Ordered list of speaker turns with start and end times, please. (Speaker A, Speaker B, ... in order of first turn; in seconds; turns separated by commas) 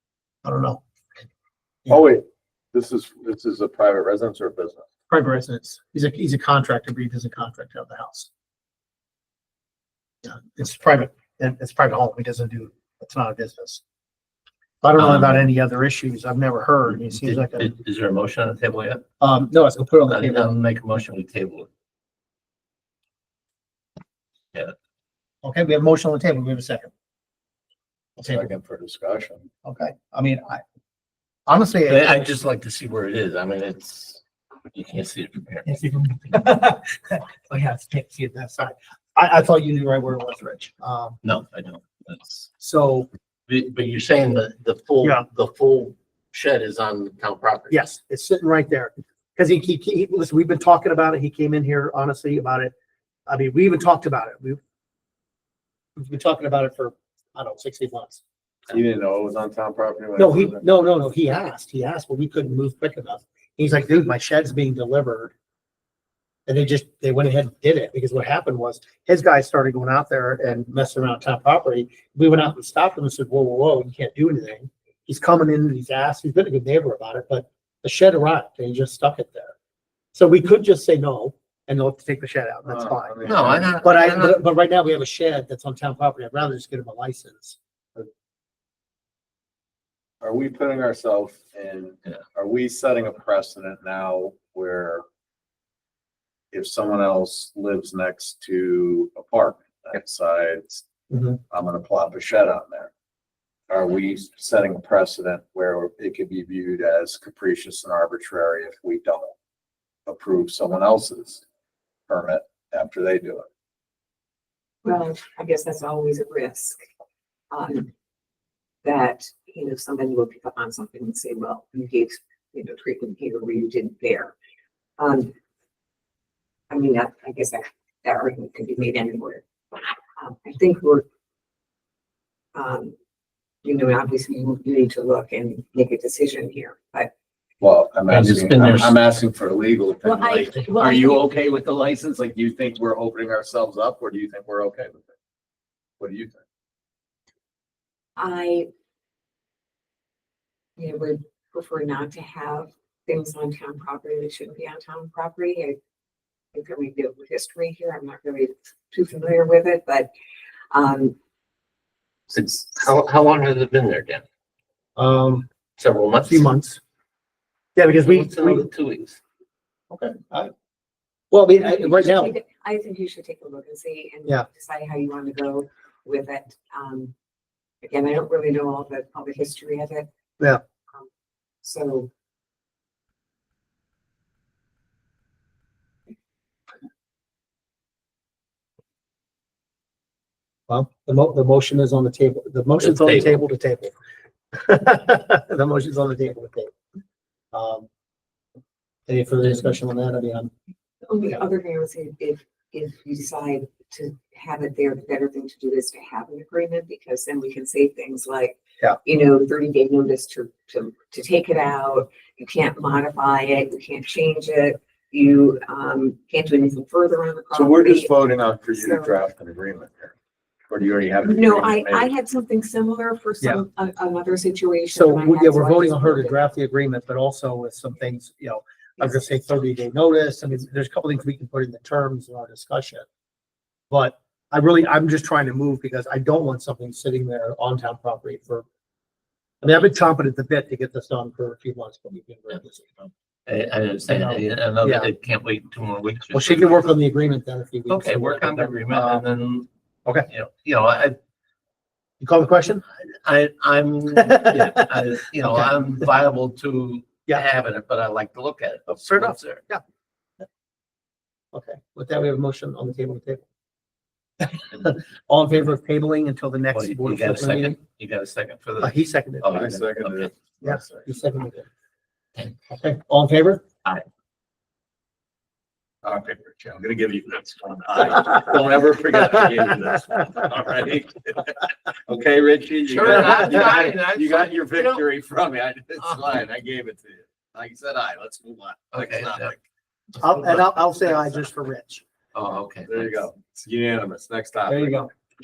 Speaker A: 0.4-0.8, Speaker B: 1.9-4.8, Speaker A: 5.1-8.3, Speaker A: 10.2-13.8, Speaker A: 14.8-17.7, Speaker C: 15.0-15.3, Speaker C: 17.1-19.0, Speaker A: 19.2-20.5, Speaker C: 20.1-21.7, Speaker A: 25.4-26.9, Speaker A: 28.2-28.5, Speaker B: 28.3-29.5, Speaker A: 29.6-30.6, Speaker A: 31.5-32.3, Speaker C: 31.9-34.2, Speaker C: 34.7-35.8, Speaker A: 35.7-41.2, Speaker C: 41.2-42.5, Speaker A: 42.6-43.1, Speaker C: 43.5-47.8, Speaker A: 47.7-52.8, Speaker A: 53.3-54.6, Speaker A: 56.0-58.2, Speaker B: 58.7-60.6, Speaker A: 60.2-65.3, Speaker A: 66.5-79.5, Speaker A: 80.1-88.1, Speaker B: 82.7-83.8, Speaker C: 83.2-84.4, Speaker B: 90.2-95.0, Speaker B: 96.5-100.8, Speaker A: 101.1-101.4, Speaker B: 101.5-102.9, Speaker B: 103.7-109.3, Speaker B: 110.1-111.4, Speaker B: 112.1-113.5, Speaker D: 114.8-116.8, Speaker D: 117.5-117.9, Speaker D: 118.8-124.3, Speaker D: 125.0-125.3, Speaker D: 126.7-129.4, Speaker D: 130.2-131.1, Speaker D: 132.6-133.0, Speaker D: 133.6-137.1, Speaker B: 137.6-145.1, Speaker C: 138.1-138.9, Speaker D: 140.1-141.3, Speaker B: 146.0-146.4, Speaker D: 148.2-148.7, Speaker D: 150.8-155.8, Speaker D: 156.5-160.1, Speaker D: 160.7-161.2, Speaker C: 162.3-164.2, Speaker A: 165.0-165.5, Speaker C: 165.8-166.5, Speaker A: 166.2-166.8, Speaker A: 167.8-168.7, Speaker C: 167.9-169.2, Speaker A: 169.9-170.5, Speaker A: 171.3-172.3, Speaker D: 171.6-177.1, Speaker D: 177.8-180.1, Speaker D: 181.6-182.1, Speaker A: 190.7-193.9, Speaker C: 192.8-193.4, Speaker A: 194.5-196.7, Speaker A: 197.5-197.9, Speaker A: 199.1-200.5, Speaker D: 201.1-218.1, Speaker B: 217.5-220.1, Speaker D: 218.7-219.1, Speaker B: 220.7-222.1, Speaker D: 221.2-226.4, Speaker A: 224.9-233.1, Speaker A: 233.9-238.7, Speaker A: 239.6-243.1, Speaker C: 243.5-246.8, Speaker A: 244.1-245.1, Speaker A: 246.3-249.2, Speaker C: 247.9-249.7, Speaker C: 250.3-251.2, Speaker A: 252.2-252.8, Speaker C: 252.9-259.6, Speaker A: 258.9-259.8, Speaker A: 261.5-263.4, Speaker A: 264.4-267.8, Speaker C: 266.7-270.3, Speaker A: 268.8-269.6, Speaker B: 269.5-271.0, Speaker A: 270.6-271.7, Speaker A: 272.7-273.6, Speaker B: 276.0-289.6, Speaker C: 282.9-285.1, Speaker C: 288.9-289.5, Speaker A: 290.2-292.0, Speaker C: 292.3-293.2, Speaker B: 292.9-295.0, Speaker A: 294.7-295.1